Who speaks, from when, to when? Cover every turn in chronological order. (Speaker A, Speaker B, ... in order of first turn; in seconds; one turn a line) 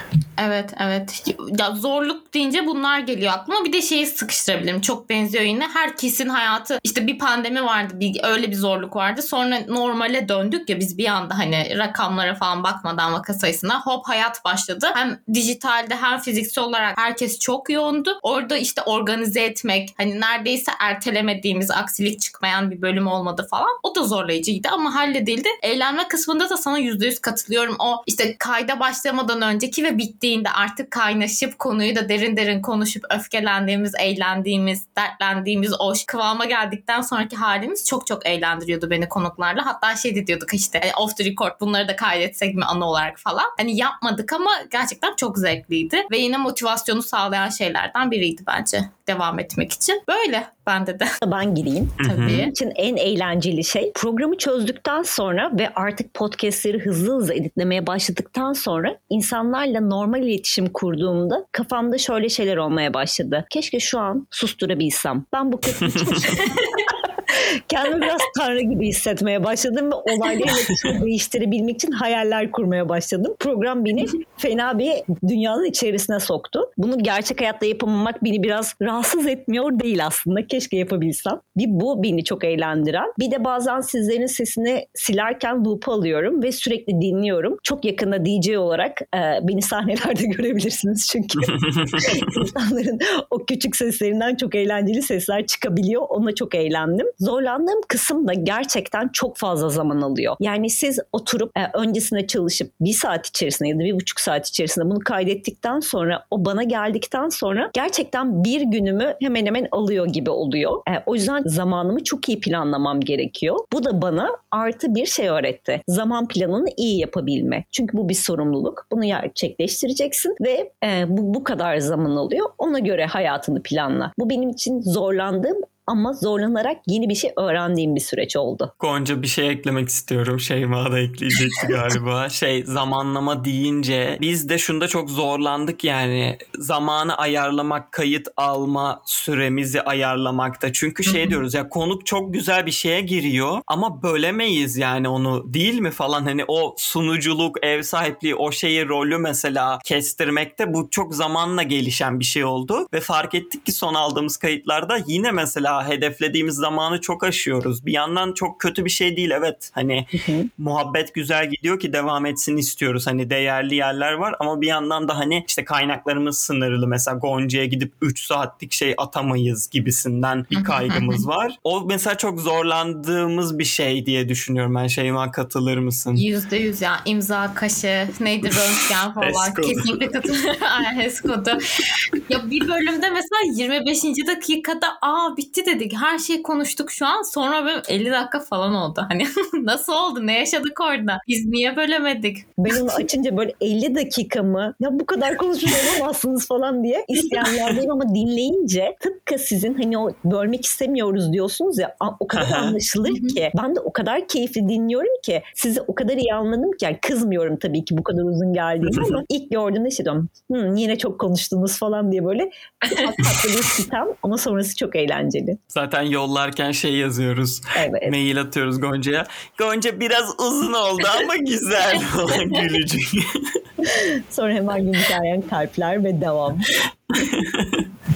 Speaker A: 0.4-51.1
Speaker B: 51.2-128.7
Speaker C: 52.0-52.4
Speaker A: 52.0-52.5
Speaker C: 65.8-66.3
Speaker A: 66.4-66.8
Speaker A: 70.1-70.6
Speaker C: 91.4-92.4
Speaker C: 128.8-176.2
Speaker A: 141.1-141.4
Speaker B: 160.1-160.5
Speaker A: 170.5-171.2
Speaker A: 176.1-181.6
Speaker C: 179.2-180.0
Speaker A: 182.3-193.0
Speaker B: 192.6-215.6
Speaker C: 202.3-202.8
Speaker A: 203.1-203.4
Speaker C: 208.8-209.2
Speaker C: 215.7-223.5
Speaker B: 217.7-218.1
Speaker A: 222.3-222.6
Speaker B: 223.8-227.2
Speaker C: 227.1-227.8